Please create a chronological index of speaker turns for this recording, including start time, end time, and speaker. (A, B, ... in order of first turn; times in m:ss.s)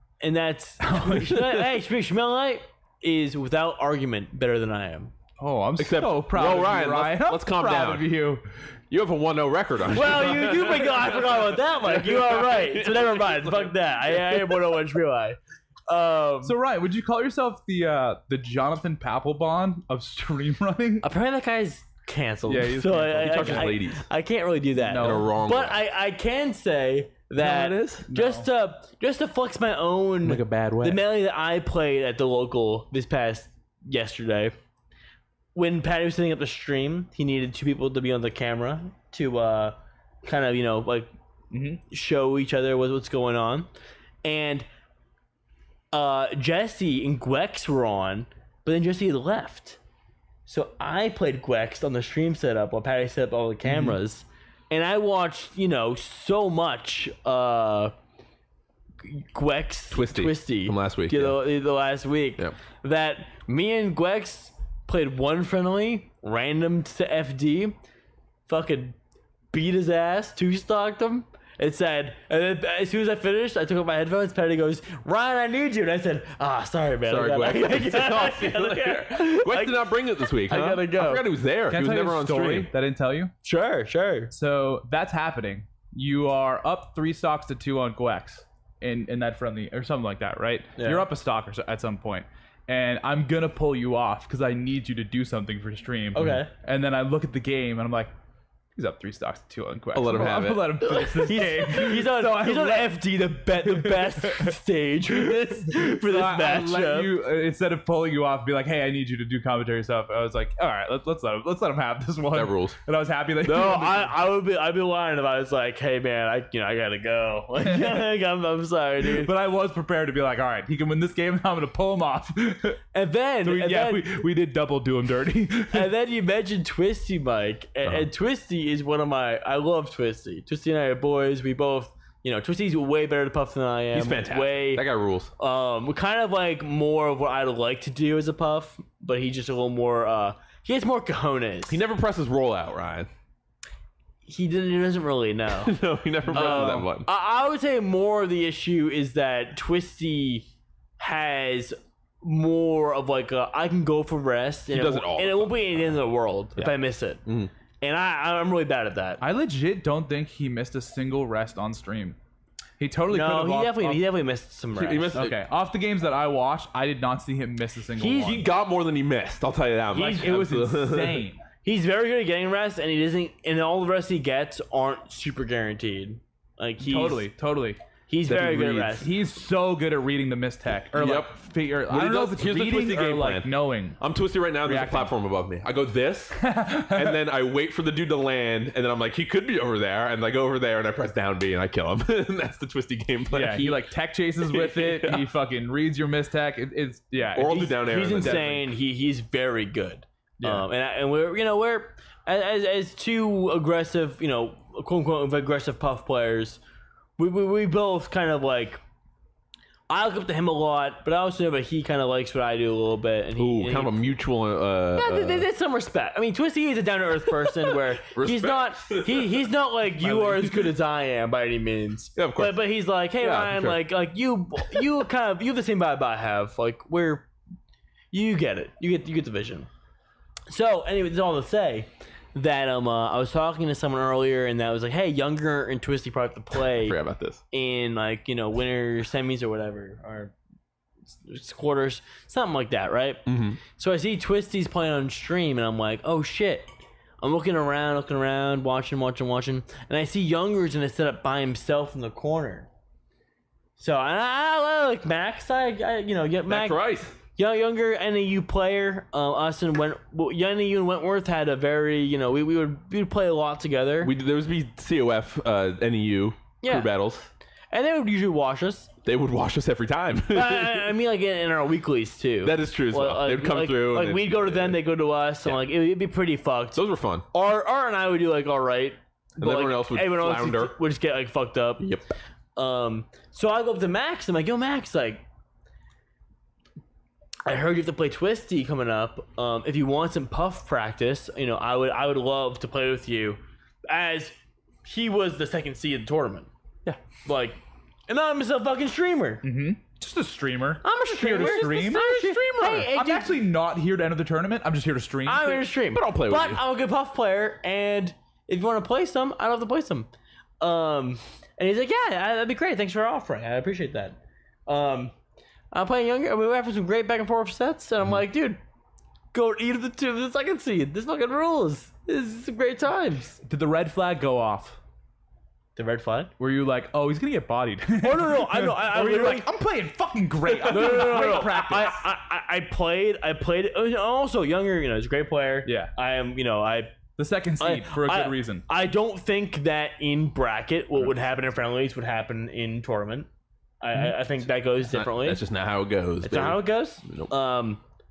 0:00.2-0:05.1 A
0:00.8-0:01.7 B
0:05.4-0:08.4 B
0:05.8-0:08.1 C
0:08.9-0:14.8 C
0:09.9-0:16.6 A
0:16.4-0:21.0 B
0:21.0-0:34.5 A
0:22.5-0:23.7 B
0:23.2-0:24.0 C
0:24.8-0:25.3 B
0:25.0-0:25.8 C
0:27.4-0:28.1 C
0:28.1-0:28.5 B
0:30.2-0:31.0 C
0:35.5-0:41.1 A
0:41.5-0:41.8 B
0:41.9-0:43.7 A
0:44.2-0:44.6 A
0:45.9-0:49.8 A
0:50.4-0:57.9 A
0:53.6-0:54.0 B
0:59.0-1:07.8 A
0:59.9-1:01.4 C
1:08.5-1:09.0 A
1:09.5-1:21.2 A
1:17.0-1:22.7 C
1:21.7-1:23.3 B
1:23.4-1:24.3 A
1:24.3-1:38.1 B
1:30.8-1:31.1 A
1:36.1-1:36.5 A
1:38.8-1:43.0 B
1:39.9-1:40.8 C
1:40.8-1:47.1 A
1:43.6-1:44.6 B
1:45.7-1:54.2 B
1:52.3-1:52.8 C
1:53.4-1:59.3 A
1:57.6-1:58.1 B
1:59.0-2:02.8 B
2:02.9-2:04.1 A
2:03.4-2:05.9 B
2:05.7-2:14.8 A
2:13.9-2:15.3 C
2:15.4-2:21.8 A
2:21.7-2:23.1 C
2:24.2-2:30.5 A
2:25.6-2:27.1 C
2:26.3-2:26.8 B
2:31.0-2:37.2 A
2:34.7-2:36.0 C
2:37.2-2:37.5 C
2:37.8-2:39.2 A
2:39.2-2:42.2 B
2:42.8-2:44.0 B
2:43.1-2:45.2 A
2:44.7-2:45.4 C
2:45.1-2:48.4 B
2:48.0-2:51.2 C
2:49.9-2:50.4 A
2:50.0-2:51.4 B
2:51.6-2:57.3 A
2:56.8-2:57.8 B
2:58.1-2:59.1 A
2:58.3-2:59.0 C
2:58.9-3:04.0 B
3:01.0-3:01.4 C
3:01.9-3:13.8 C
3:04.6-3:05.1 B
3:06.4-3:07.2 B
3:13.3-3:18.7 B
3:14.4-3:15.3 C
3:17.3-3:18.5 C
3:17.7-3:26.6 A
3:20.4-3:20.7 B
3:27.2-3:28.8 A
3:29.9-3:34.2 A
3:33.4-3:35.5 C
3:34.9-3:47.3 A
3:38.1-3:39.5 C
3:40.0-3:40.6 C
3:42.2-3:42.6 C
3:43.2-3:43.8 C
3:48.1-3:49.7 A
3:50.5-3:57.0 A
3:56.8-3:57.4 C
3:57.5-4:00.3 A
4:01.1-4:06.7 A
4:03.2-4:03.6 C
4:07.2-4:12.7 A
4:13.8-4:24.1 A
4:16.5-4:17.1 C
4:24.0-4:27.3 C
4:26.6-4:26.9 A
4:27.7-4:28.9 A
4:29.0-4:30.9 C
4:30.3-4:36.8 A
4:32.4-4:34.8 C
4:36.7-4:37.2 C
4:37.3-4:41.8 A
4:39.4-4:40.8 C
4:41.8-4:42.1 C
4:42.6-4:45.2 A
4:47.4-4:56.5 A
4:57.2-4:59.4 A
4:59.4-5:05.6 B
5:00.8-5:03.4 A
5:05.2-5:10.1 A
5:05.9-5:06.6 C
5:10.6-5:15.1 A
5:15.7-5:18.6 A
5:19.3-5:23.4 A
5:23.4-5:24.8 B
5:25.8-5:26.3 A
5:26.4-5:32.0 B
5:28.0-5:29.5 A
5:30.6-5:37.0 A
5:35.6-5:35.9 B
5:37.2-5:38.6 B
5:37.6-5:43.3 A
5:43.8-5:45.4 A
5:44.8-5:47.3 C
5:46.2-5:47.8 A